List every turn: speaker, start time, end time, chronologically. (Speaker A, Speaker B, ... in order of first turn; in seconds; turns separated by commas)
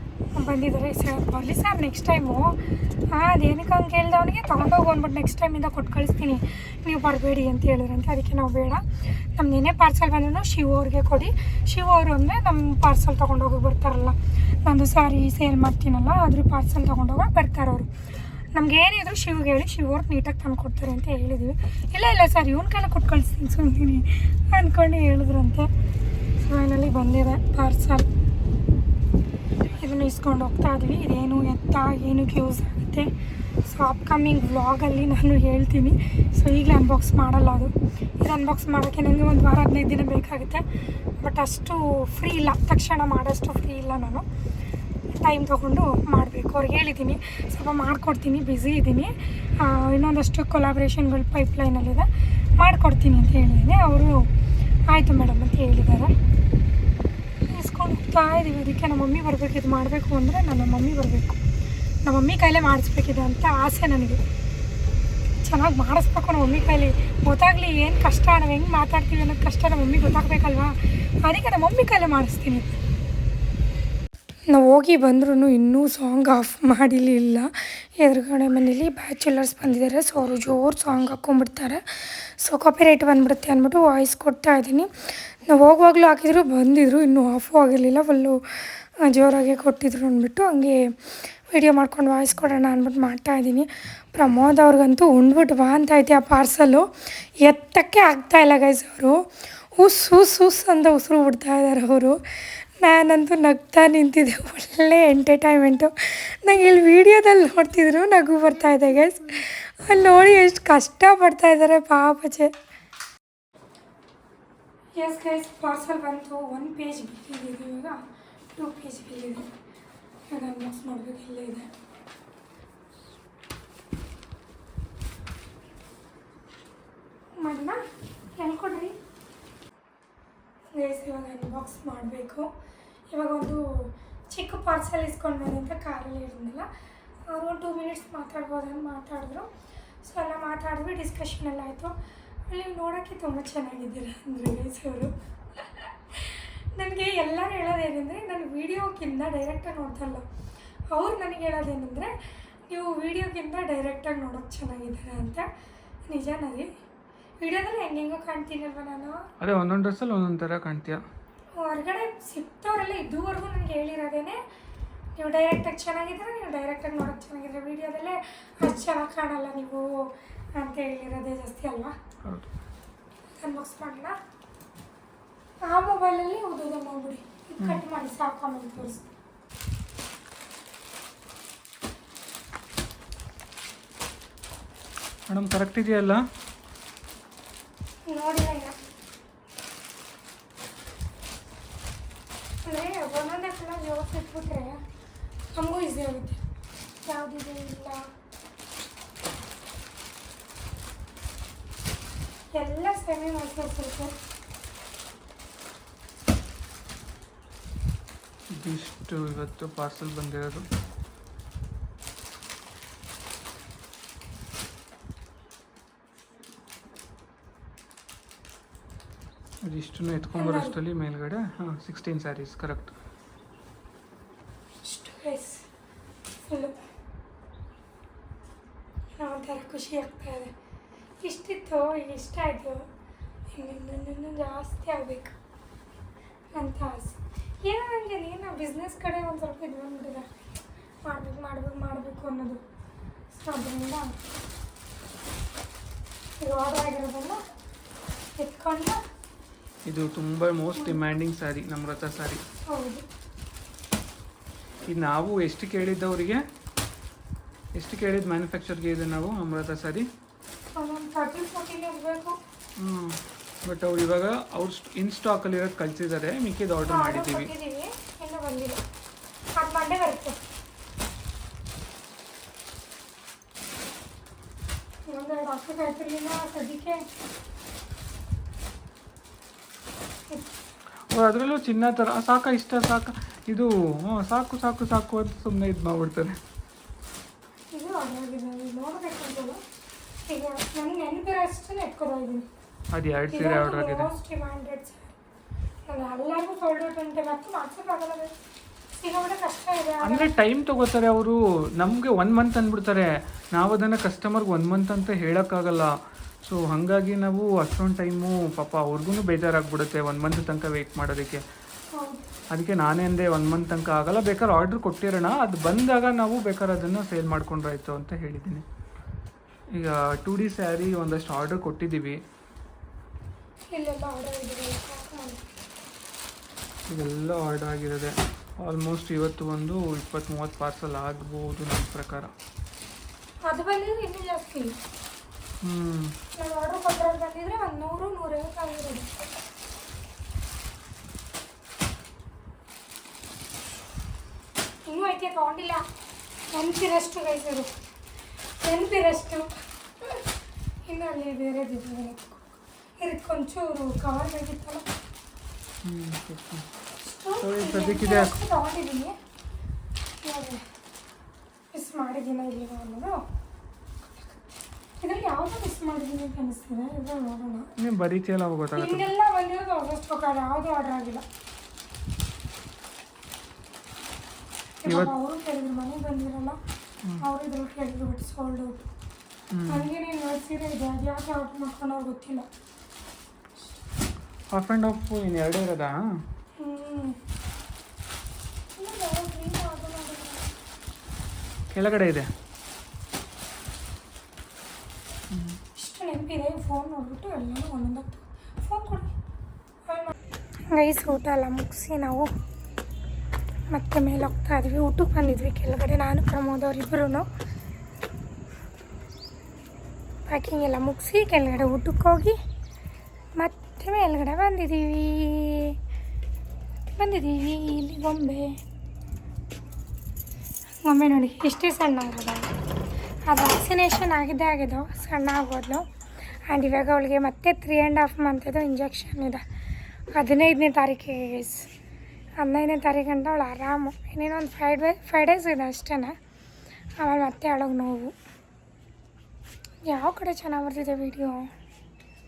Speaker A: 0.3-8.8, Speaker A: 9.4-17.9, Speaker A: 18.5-25.7, Speaker A: 26.4-28.1, Speaker A: 29.7-33.1, Speaker A: 33.6-40.6, Speaker A: 41.2-44.2, Speaker A: 45.1-52.1, Speaker A: 52.6-54.3, Speaker A: 54.9-56.1, Speaker A: 57.5-61.4, Speaker A: 62.0-64.2, Speaker A: 65.4-72.8, Speaker A: 74.5-84.9, Speaker A: 85.5-88.4, Speaker A: 89.0-90.9, Speaker A: 91.5-96.8, Speaker A: 97.4-99.2, Speaker A: 99.8-102.2, Speaker A: 102.8-112.5, Speaker A: 115.0-118.0, Speaker A: 118.6-119.5, Speaker A: 120.3-121.7, Speaker A: 127.4-127.8, Speaker A: 128.3-128.9, Speaker A: 130.7-132.5, Speaker A: 133.1-136.7, Speaker A: 137.3-139.5, Speaker A: 140.0-141.9, Speaker A: 142.5-150.2, Speaker A: 150.9-152.2, Speaker A: 152.7-155.4, Speaker A: 156.1-156.7, Speaker A: 157.4-159.3, Speaker B: 159.4-161.0, Speaker A: 161.6-164.4, Speaker A: 165.2-171.9, Speaker A: 173.4-174.2, Speaker A: 175.7-179.0, Speaker B: 185.3-186.2, Speaker A: 188.1-188.8, Speaker A: 192.6-194.8, Speaker A: 195.5-196.4, Speaker A: 197.0-198.1, Speaker A: 202.5-204.1, Speaker B: 208.6-210.7, Speaker B: 219.6-222.9, Speaker A: 220.3-220.8, Speaker A: 224.8-225.7, Speaker A: 226.4-226.8, Speaker A: 229.2-230.5, Speaker A: 231.2-232.8, Speaker A: 233.5-235.3, Speaker A: 236.5-240.3, Speaker A: 241.0-242.6, Speaker A: 243.3-244.1, Speaker A: 246.4-247.4, Speaker A: 248.4-249.0, Speaker B: 249.8-252.4, Speaker A: 252.7-253.0, Speaker B: 254.9-256.4, Speaker B: 257.7-260.1, Speaker A: 260.7-262.4, Speaker B: 262.8-267.5, Speaker A: 266.9-268.8, Speaker A: 269.6-270.4, Speaker A: 275.1-277.2, Speaker B: 281.1-286.4, Speaker A: 287.7-289.6, Speaker A: 290.3-292.5, Speaker B: 292.9-294.1, Speaker A: 293.3-295.1, Speaker A: 295.9-298.3, Speaker A: 298.9-300.3, Speaker B: 300.0-305.9, Speaker B: 306.4-311.4, Speaker A: 311.9-312.3, Speaker B: 312.5-318.6, Speaker B: 319.7-322.2, Speaker A: 323.7-325.5, Speaker B: 326.9-332.3, Speaker A: 333.4-334.7, Speaker B: 335.6-336.1, Speaker A: 336.3-339.3, Speaker A: 344.9-345.8, Speaker A: 346.5-347.7, Speaker A: 348.6-349.5, Speaker A: 350.9-354.9, Speaker B: 355.8-356.6, Speaker A: 357.0-359.2, Speaker B: 357.4-358.3, Speaker A: 360.2-360.6, Speaker A: 361.7-363.2, Speaker A: 365.0-367.7, Speaker B: 367.8-369.1, Speaker A: 368.8-371.2, Speaker A: 374.8-376.6, Speaker B: 374.9-375.1, Speaker A: 377.2-378.9, Speaker B: 379.5-379.9, Speaker A: 379.7-382.4, Speaker B: 384.5-386.0, Speaker A: 386.6-387.2, Speaker A: 388.7-390.5, Speaker B: 391.7-392.3, Speaker B: 395.3-395.6, Speaker A: 395.7-399.1, Speaker A: 399.9-400.2, Speaker A: 400.7-402.3, Speaker A: 403.7-407.3, Speaker A: 410.2-412.4, Speaker A: 413.4-415.8, Speaker A: 416.9-418.6, Speaker A: 420.8-422.5, Speaker A: 423.2-425.8, Speaker A: 426.5-429.4, Speaker A: 430.1-431.7, Speaker A: 432.4-436.1, Speaker A: 437.0-438.1, Speaker A: 439.9-441.5